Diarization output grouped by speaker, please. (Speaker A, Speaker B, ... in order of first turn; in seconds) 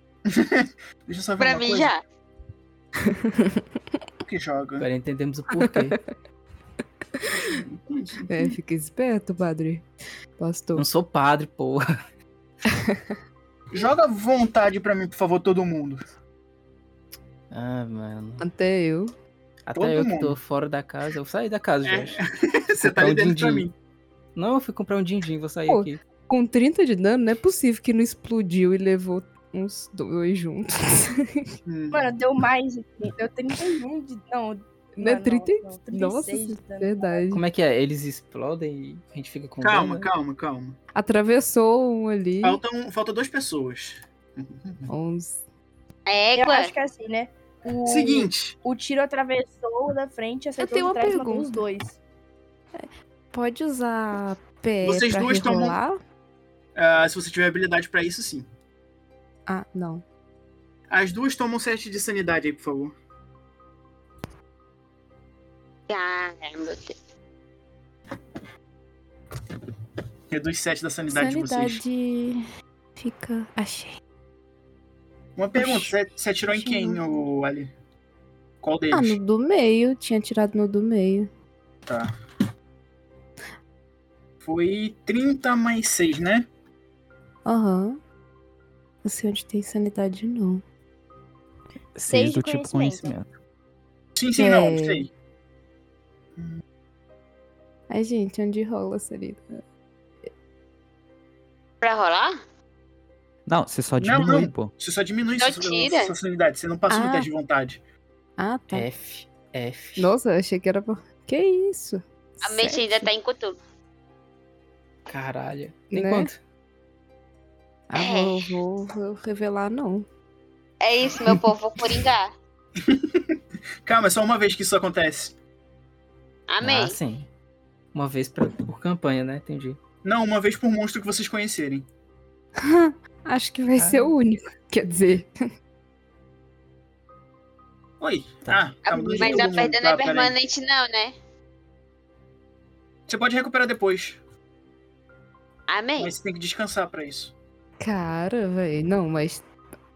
Speaker A: 0.3-1.9, 4.2-4.9, 7.5-8.5, 13.7-16.0, 19.7-20.4, 21.8-23.7, 31.6-32.1, 39.6-40.8, 42.4-44.9, 47.8-48.5, 54.8-55.8, 56.8-58.5, 60.9-62.9, 70.3-71.8, 75.4-77.7, 78.6-79.2, 81.9-82.1, 84.4-86.5, 94.2-95.1, 104.0-107.8, 122.8-125.3, 130.0-131.9, 138.0-140.3, 143.1-144.2, 146.0-147.3
Speaker B: 1.4-2.0, 46.1-46.7, 65.9-67.0, 101.8-102.4, 105.4-106.1, 112.4-113.5, 118.0-118.5, 120.8-122.3, 126.5-127.0, 138.8-141.1, 145.7-146.1
Speaker C: 3.0-3.6, 5.5-6.0, 7.2-7.6, 8.3-9.8, 10.4-10.9, 12.7-13.1, 18.4-19.1, 25.7-31.5, 35.0-37.4, 40.9-42.6, 44.9-45.4, 50.6-51.5, 52.7-56.0, 59.5-60.0, 71.1-72.4, 73.0-74.0, 75.5-75.9, 76.5-77.2, 78.9-81.3, 87.4-88.0, 89.0-90.6, 94.4-95.1, 97.9-99.6, 106.9-107.3, 108.4-108.9, 110.0-113.1, 115.9-116.3, 117.9-120.0, 132.6-135.3, 139.1-139.5, 147.8-149.4
Speaker D: 4.8-6.0, 10.7-11.8, 17.5-18.4, 19.6-22.2, 22.8-23.7, 24.3-26.0, 37.3-40.1, 108.7-110.1, 115.1-116.4, 126.6-127.3, 127.9-129.8, 133.8-134.1
Speaker E: 31.9-37.0, 46.4-52.0, 92.1-93.1
Speaker F: 92.0-93.3, 103.5-104.7